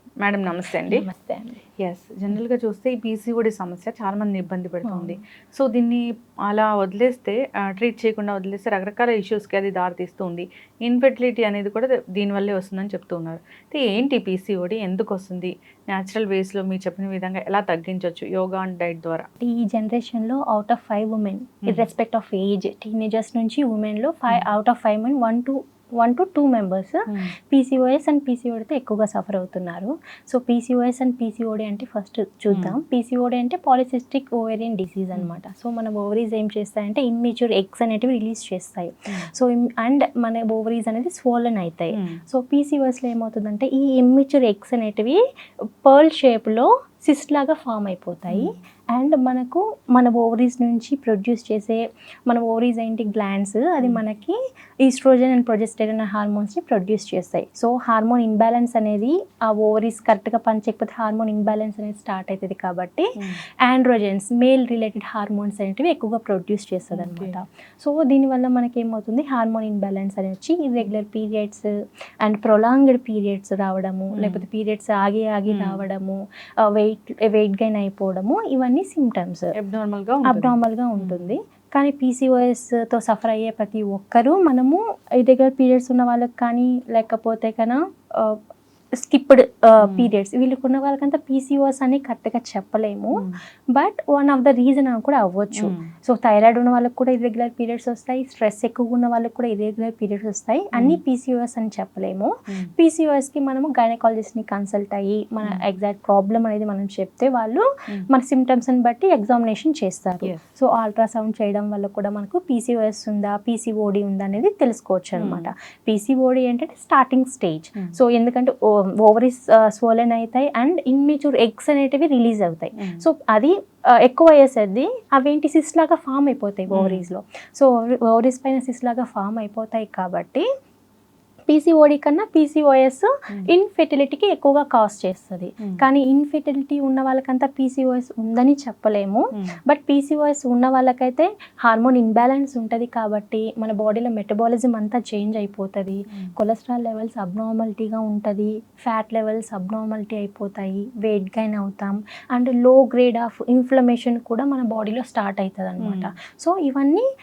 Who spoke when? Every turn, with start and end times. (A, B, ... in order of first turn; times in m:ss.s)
0:00.2-0:01.0 A
0:00.8-0:01.6 B
0:01.8-0:19.3 A
0:04.8-0:05.2 B
0:19.4-0:45.2 B
0:32.5-0:32.8 A
0:45.8-1:03.1 B
1:03.6-1:11.7 B
1:06.9-1:07.4 A
1:12.2-1:19.5 B
1:14.1-1:14.4 A
1:15.5-1:15.8 A
1:19.6-1:21.4 A
1:20.2-1:28.4 B
1:29.0-1:33.2 B
1:29.8-1:30.1 A
1:33.7-2:10.5 B
1:35.6-1:35.9 A
1:40.8-1:41.0 A
1:55.2-1:55.5 A
2:02.8-2:03.0 A
2:06.7-2:07.1 A
2:11.5-2:37.0 B
2:35.8-2:36.1 A